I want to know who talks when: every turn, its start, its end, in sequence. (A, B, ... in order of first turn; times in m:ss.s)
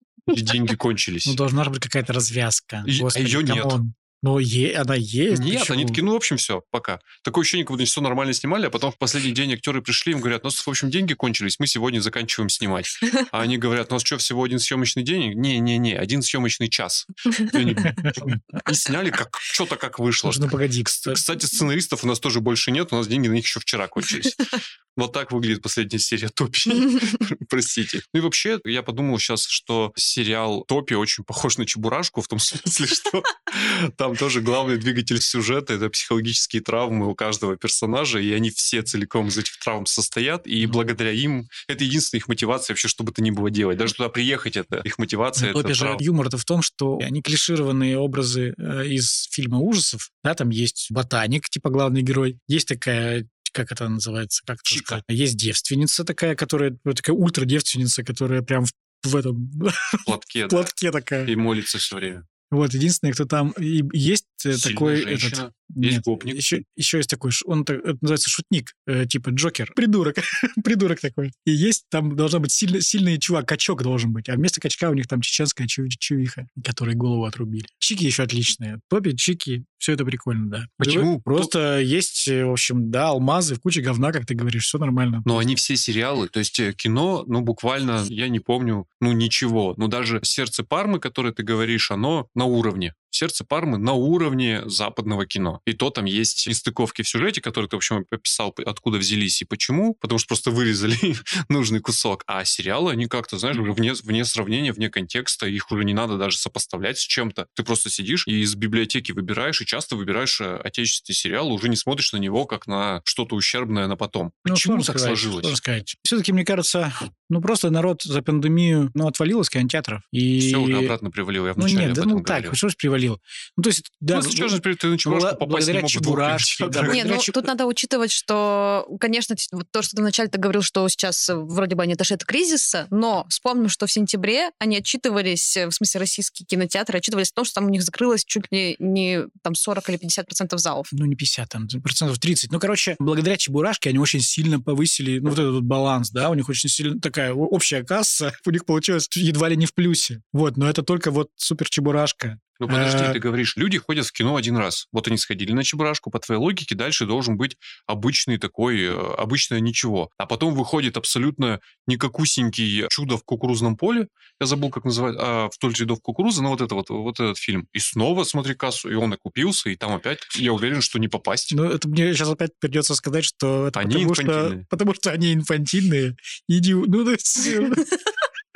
0:00.3-0:01.4 A
0:01.3-0:06.0 B
0:02.8-0:03.8 A
0:05.3-0:20.5 A
0:20.2-0:21.2 B
0:21.0-0:46.0 A
0:45.4-1:01.3 B
0:54.7-0:55.0 A
1:00.0-1:00.7 A
1:01.3-1:02.2 A
1:02.5-1:25.6 B
1:04.5-1:06.6 A
1:20.8-1:21.5 A
1:25.3-1:55.6 A
1:54.5-2:00.9 B
2:00.4-2:02.6 A
2:01.6-2:07.4 B
2:04.1-2:07.1 A
2:06.9-2:20.9 C
2:20.9-2:33.2 B
2:32.6-2:51.6 A
2:51.5-2:57.9 B
2:53.8-2:54.6 A